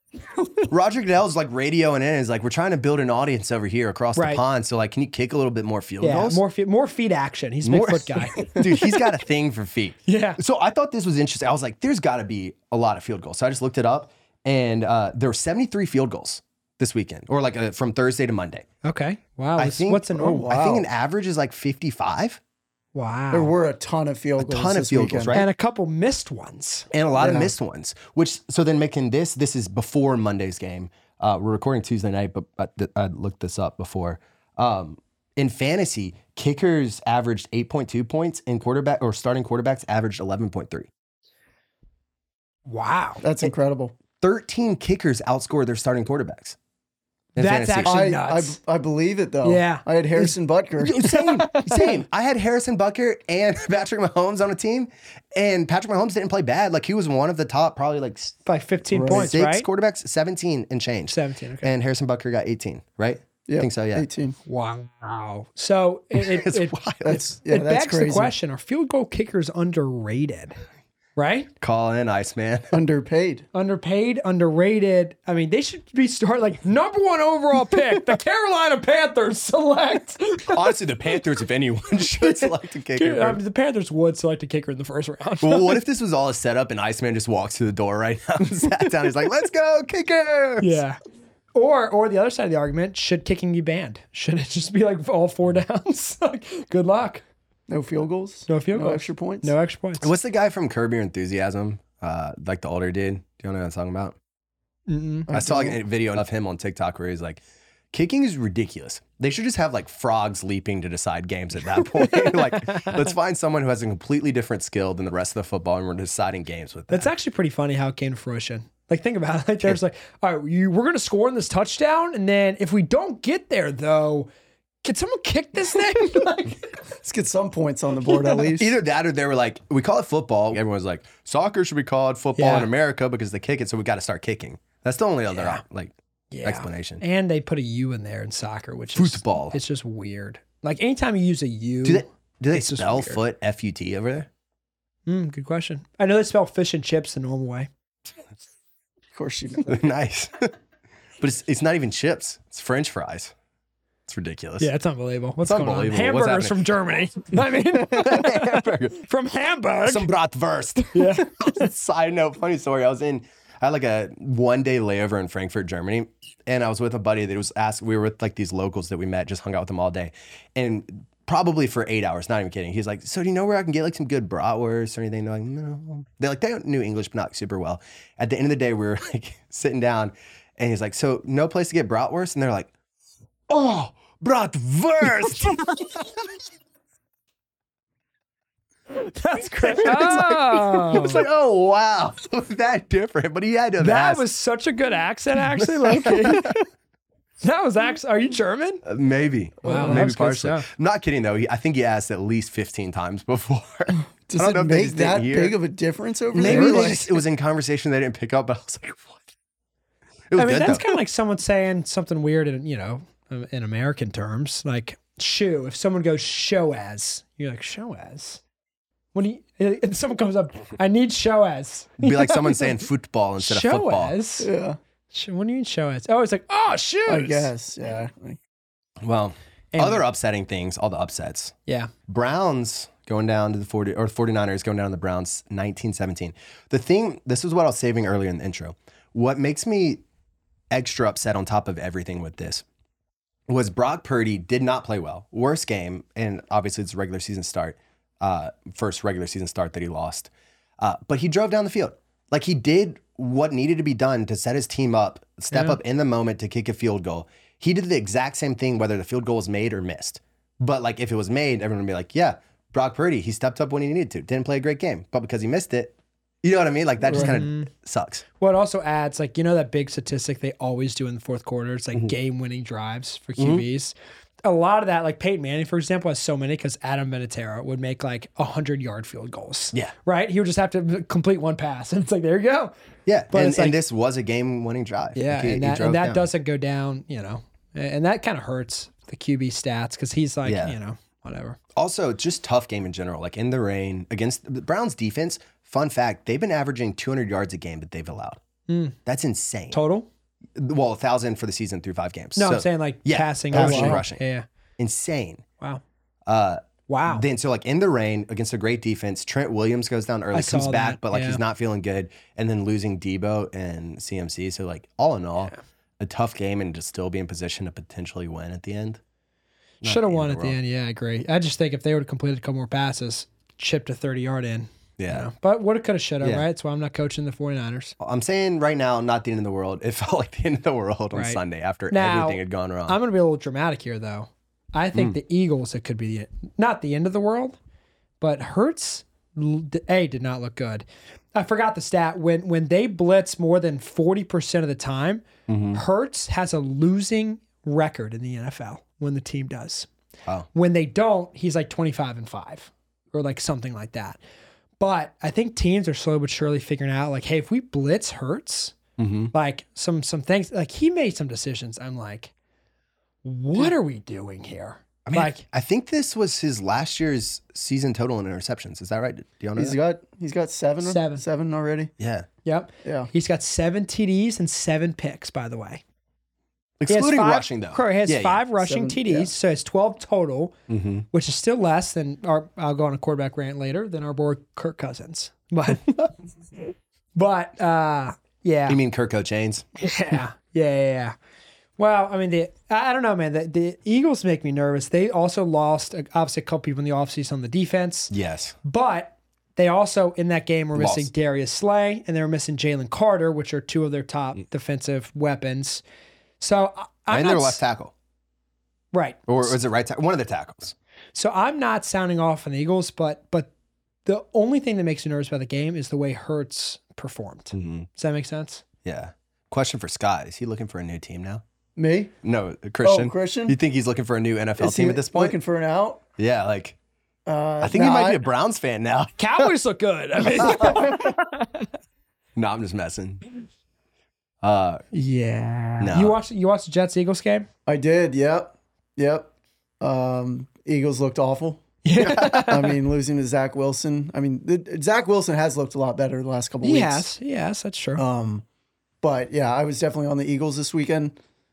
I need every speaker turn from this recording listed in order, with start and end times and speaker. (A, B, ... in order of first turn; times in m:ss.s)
0:00.7-0:06.4 A
0:04.1-0:04.4 B
0:06.0-0:08.6 B
0:07.6-0:18.6 A
0:10.0-0:10.4 B
0:18.8-0:20.5 B
0:19.6-0:22.4 A
0:20.2-0:20.8 C
0:22.9-0:23.5 B
0:23.3-0:25.4 C
0:24.4-0:25.5 A
0:25.3-0:26.9 B
0:26.9-0:40.9 A
0:27.2-0:27.5 C
0:42.7-0:43.2 B
0:43.2-0:43.9 C
0:44.2-0:46.6 A
0:47.3-0:48.0 A
0:47.4-0:48.6 B
0:47.8-0:51.1 C
0:49.4-0:50.3 B
0:50.8-0:58.4 A
0:51.0-0:52.0 B
0:58.4-0:59.7 B
0:58.9-0:59.3 C
0:59.1-1:04.1 A
1:01.1-1:01.7 B
1:03.5-1:04.4 C
1:04.4-1:10.6 B
1:06.1-1:07.2 A
1:07.0-1:08.3 C
1:11.2-1:11.5 B
1:11.6-1:12.8 A
1:12.7-1:13.4 C
1:13.5-1:20.8 B
1:20.5-1:23.4 A
1:22.2-1:25.8 B
1:25.4-1:30.8 A
1:30.6-1:31.0 B
1:31.5-1:37.2 B
1:37.7-1:39.5 C
1:38.5-1:40.1 B
1:40.0-1:44.2 A
1:44.9-1:45.3 B
1:45.3-1:45.8 C
1:45.3-1:57.1 A
1:51.8-1:53.1 B
1:56.9-2:04.3 B
2:04.8-2:06.7 B
2:07.0-2:08.7 C
2:08.4-2:17.0 A
2:12.4-2:12.7 B
2:15.4-2:15.6 B
2:16.3-2:23.2 B
2:18.9-2:19.6 A
2:21.8-2:24.3 A
2:25.1-2:27.7 B
2:29.1-2:29.8 C
2:29.7-2:30.5 A
2:31.2-2:33.3 A
2:34.1-2:34.7 A
2:34.6-2:40.1 B
2:35.4-2:36.6 A
2:37.7-2:39.0 A
2:39.8-3:02.7 A
2:40.9-2:41.5 B
3:03.5-3:06.2 A
3:08.9-3:11.2 B
3:09.6-3:14.2 A
3:13.8-3:16.6 B
3:15.4-3:16.6 A
3:16.0-3:16.4 C
3:17.4-3:18.8 B
3:18.8-3:25.6 A
3:19.6-3:20.7 B
3:19.6-3:20.1 C
3:24.3-3:27.1 C
3:26.3-3:29.2 A
3:26.3-3:27.0 B
3:30.3-3:30.9 A
3:30.4-3:38.4 B
3:39.1-3:42.8 B
3:42.0-3:44.1 A
3:43.4-3:44.5 B
3:44.4-3:44.8 C
3:45.1-3:47.5 B
3:47.1-3:48.4 C
3:49.0-3:51.5 A
3:49.7-3:50.0 B
3:52.1-4:00.0 A
4:00.7-4:02.6 A
4:03.5-4:28.2 A
4:15.5-4:15.8 B
4:27.1-4:27.7 B
4:28.4-4:42.7 B
4:33.4-4:33.6 A
4:43.0-4:46.3 A
4:43.3-4:43.8 B
4:45.1-4:51.6 B
4:50.4-4:50.8 A
4:51.7-4:58.4 A
4:58.7-4:59.0 B
4:59.0-4:59.8 A
4:59.7-5:00.1 B
5:00.5-5:04.2 A
5:02.4-5:04.4 B
5:03.5-5:04.0 C
5:04.8-5:05.4 A
5:06.3-5:19.0 A
5:06.9-5:07.2 B
5:10.3-5:11.4 B
5:19.8-5:20.6 A
5:19.8-5:27.9 B
5:25.0-5:25.3 A
5:28.0-5:33.0 A
5:31.1-5:37.6 B
5:38.2-5:49.9 B
5:45.5-5:45.8 A
5:50.5-5:54.2 B
5:54.8-5:58.7 B
5:59.0-5:59.3 A
5:59.3-6:02.3 B
6:03.2-6:05.4 B
6:05.0-6:09.8 A
6:09.6-6:11.9 C
6:10.8-6:11.2 B
6:12.0-6:12.3 A
6:12.4-6:15.8 B
6:12.8-6:13.1 C
6:16.8-6:18.4 A
6:16.9-6:20.5 B
6:18.6-6:19.3 C
6:20.7-6:21.0 A
6:21.1-6:26.1 B
6:27.1-6:28.8 B
6:28.7-6:29.7 A
6:29.8-6:31.1 B
6:31.8-6:38.1 B
6:38.1-6:38.6 A
6:38.6-6:45.8 B
6:40.7-6:41.1 A
6:46.4-6:47.6 B
6:47.1-6:47.9 A
6:48.9-6:49.5 B
6:49.3-6:50.7 A
6:51.1-6:53.5 B
6:54.0-6:58.6 B
6:57.5-6:57.9 A
6:58.8-7:01.4 A
7:01.8-7:02.1 C
7:02.2-7:05.4 A
7:02.8-7:03.5 C
7:04.6-7:06.0 C
7:06.2-7:06.8 A
7:07.2-7:08.2 C
7:07.6-7:09.5 A
7:09.2-7:11.7 B
7:10.4-7:10.9 A
7:12.4-7:13.2 A
7:14.4-7:14.8 A
7:14.9-7:17.5 B
7:15.8-7:16.2 A
7:17.7-7:27.1 C
7:21.8-7:22.8 B
7:22.0-7:22.5 A
7:26.6-7:28.0 B
7:28.0-7:28.4 C
7:29.0-7:31.1 C